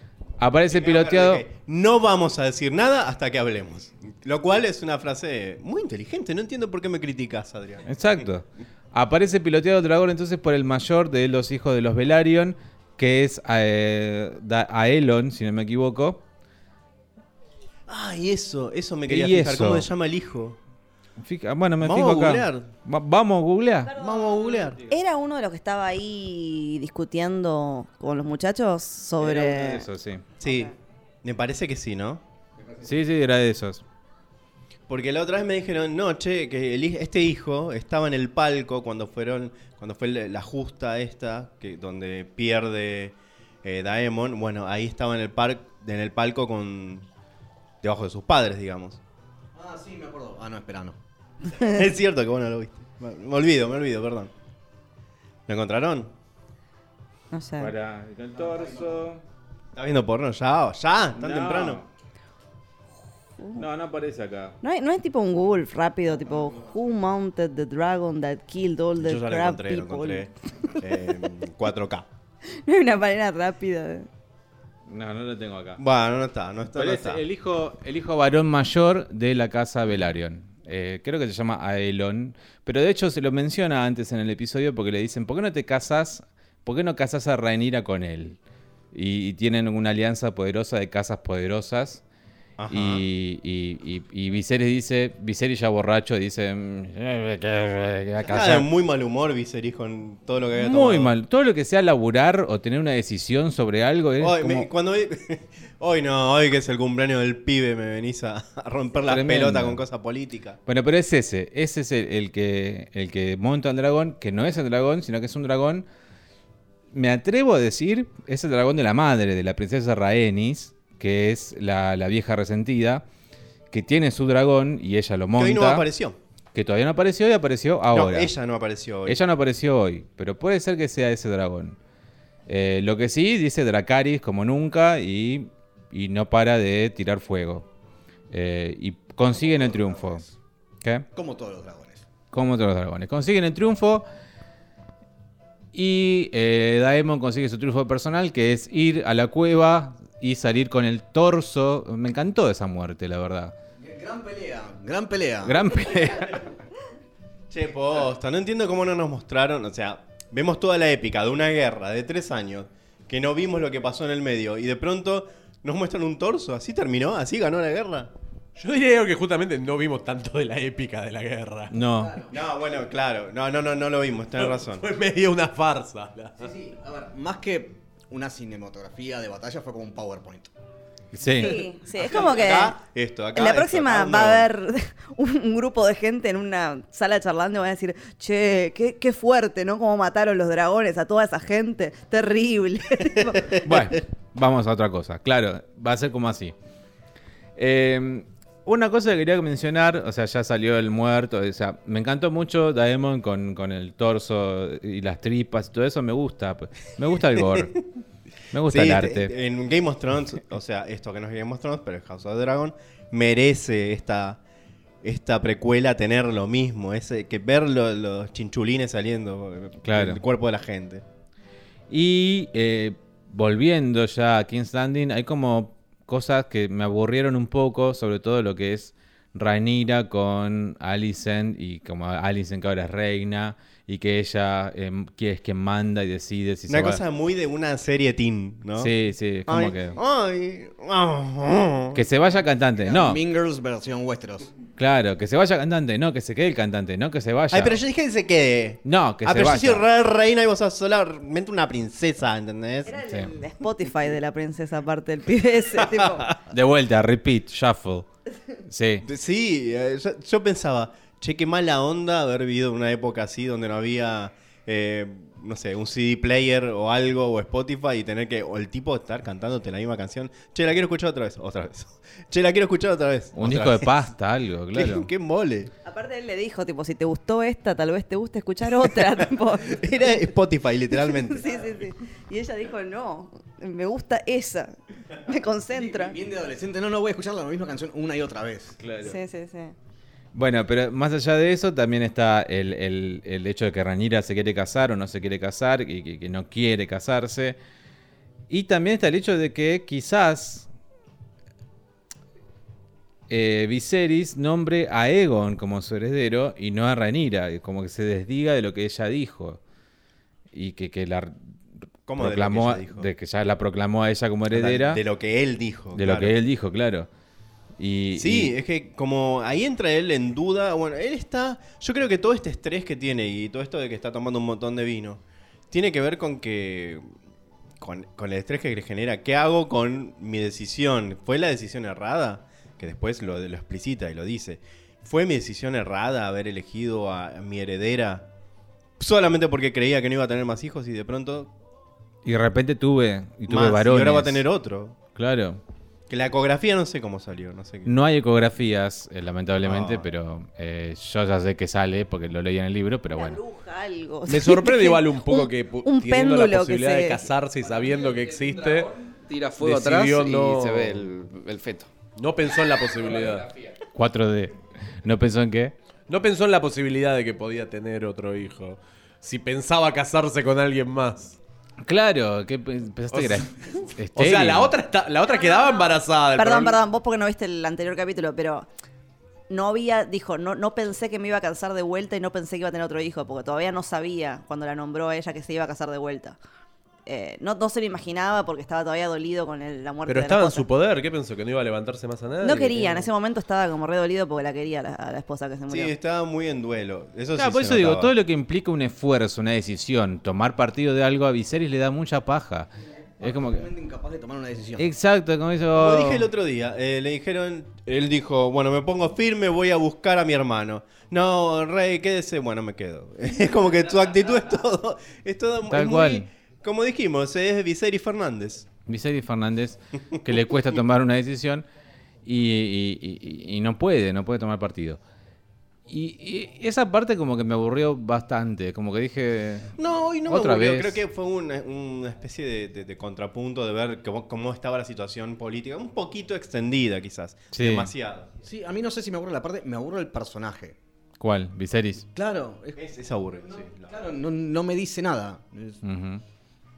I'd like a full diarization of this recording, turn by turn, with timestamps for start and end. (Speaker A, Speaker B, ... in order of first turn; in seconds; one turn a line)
Speaker A: 0.4-1.4
Speaker B: 0.7-7.9
Speaker A: 7.9-16.2
Speaker B: 17.9-20.6
Speaker A: 19.1-19.9
Speaker A: 21.2-23.9
Speaker B: 21.8-22.7
Speaker C: 23.9-29.9
Speaker B: 23.9-24.8
Speaker A: 29.2-30.2
Speaker B: 30.4-30.7
Speaker C: 30.4-30.7
Speaker B: 31.2-32.2
Speaker D: 32.6-32.9
Speaker A: 32.8-33.8
Speaker B: 34.9-47.1
Speaker B: 47.8-49.0
Speaker D: 49.5-51.0
Speaker B: 51.5-54.3
Speaker B: 55.5-56.1
Speaker C: 57.3-57.7
Speaker A: 57.6-59.2
Speaker D: 58.4-59.0
Speaker B: 59.8-61.8
Speaker A: 61.2-61.9
Speaker A: 63.6-64.5
Speaker C: 64.6-70.3
Speaker D: 66.4-66.7
Speaker B: 69.0-72.1
Speaker C: 72.5-74.1
Speaker A: 74.9-75.8
Speaker B: 75.8-77.2
Speaker A: 76.8-88.4
Speaker A: 88.9-92.0
Speaker B: 92.6-93.0
Speaker A: 92.7-98.7
Speaker B: 98.2-101.1
Speaker A: 100.6-104.7
Speaker B: 104.2-110.6
Speaker A: 109.0-109.8
Speaker A: 110.7-115.9
Speaker A: 116.9-123.0
Speaker A: 123.7-125.9
Speaker B: 125.4-126.2
Speaker A: 126.5-128.3
Speaker B: 127.9-129.2
Speaker A: 129.1-131.8
Speaker A: 132.5-137.7
Speaker A: 138.3-140.2
Speaker D: 139.3-140.3
Speaker D: 141.1-142.1
Speaker A: 142.3-144.1
Speaker A: 145.7-153.6
Speaker D: 153.8-155.9
Speaker A: 155.4-156.5
Speaker B: 157.5-168.1
Speaker E: 168.6-171.7
Speaker A: 171.7-172.2
Speaker D: 171.9-172.5
Speaker B: 172.3-174.9
Speaker E: 174.4-176.5
Speaker D: 176.4-180.5
Speaker A: 181.1-181.6
Speaker C: 181.4-182.8
Speaker B: 181.9-184.5
Speaker C: 183.3-193.6
Speaker A: 193.6-196.5
Speaker A: 197.6-207.8
Speaker A: 208.5-209.3
Speaker B: 208.7-214.4
Speaker B: 215.0-221.0
Speaker A: 219.8-220.2
Speaker A: 221.9-237.0
Speaker B: 236.7-238.9
Speaker A: 238.8-240.0
Speaker B: 239.5-242.0
Speaker A: 241.9-243.2
Speaker D: 242.8-244.5
Speaker A: 244.8-247.8
Speaker B: 247.5-253.0
Speaker A: 248.8-249.9
Speaker C: 252.8-256.3
Speaker A: 256.5-258.1
Speaker A: 258.7-259.1
Speaker B: 259.0-274.1
Speaker A: 273.4-275.1
Speaker B: 274.7-275.7
Speaker C: 275.9-279.8
Speaker B: 279.7-281.6
Speaker C: 280.9-286.2
Speaker D: 285.7-288.8
Speaker A: 288.8-289.2
Speaker C: 289.0-289.8
Speaker A: 290.3-297.6
Speaker A: 298.5-300.7
Speaker A: 303.3-309.6
Speaker A: 310.5-311.4
Speaker B: 312.1-313.1
Speaker A: 312.2-315.0
Speaker B: 314.5-316.3
Speaker A: 315.9-317.1
Speaker A: 317.8-318.5
Speaker B: 318.2-327.1
Speaker B: 327.8-338.3
Speaker B: 339.0-341.5
Speaker A: 342.2-344.4
Speaker B: 343.5-345.0
Speaker A: 345.1-345.6
Speaker B: 346.1-348.0
Speaker A: 347.9-353.4
Speaker B: 349.6-350.1
Speaker C: 353.1-357.3
Speaker E: 354.3-358.9
Speaker F: 357.6-361.9
Speaker E: 359.6-361.1
Speaker E: 362.2-363.5
Speaker F: 362.9-363.8
Speaker A: 363.9-365.7
Speaker E: 366.1-371.4
Speaker A: 371.8-374.7
Speaker E: 373.1-376.8
Speaker C: 375.2-378.7
Speaker C: 379.5-386.4
Speaker C: 387.1-390.7
Speaker E: 390.1-393.1
Speaker C: 392.4-395.9
Speaker B: 395.7-398.1
Speaker A: 397.4-402.7
Speaker D: 403.2-404.9
Speaker A: 403.2-403.7
Speaker A: 404.8-406.3
Speaker B: 405.7-418.7
Speaker A: 415.7-416.3
Speaker A: 418.9-421.6
Speaker A: 422.3-425.0
Speaker A: 425.9-429.7
Speaker B: 429.8-438.3
Speaker A: 430.3-431.0
Speaker A: 437.5-437.9
Speaker D: 438.4-440.8
Speaker A: 441.2-442.1
Speaker D: 442.1-445.8
Speaker B: 442.8-444.1
Speaker A: 445.8-446.2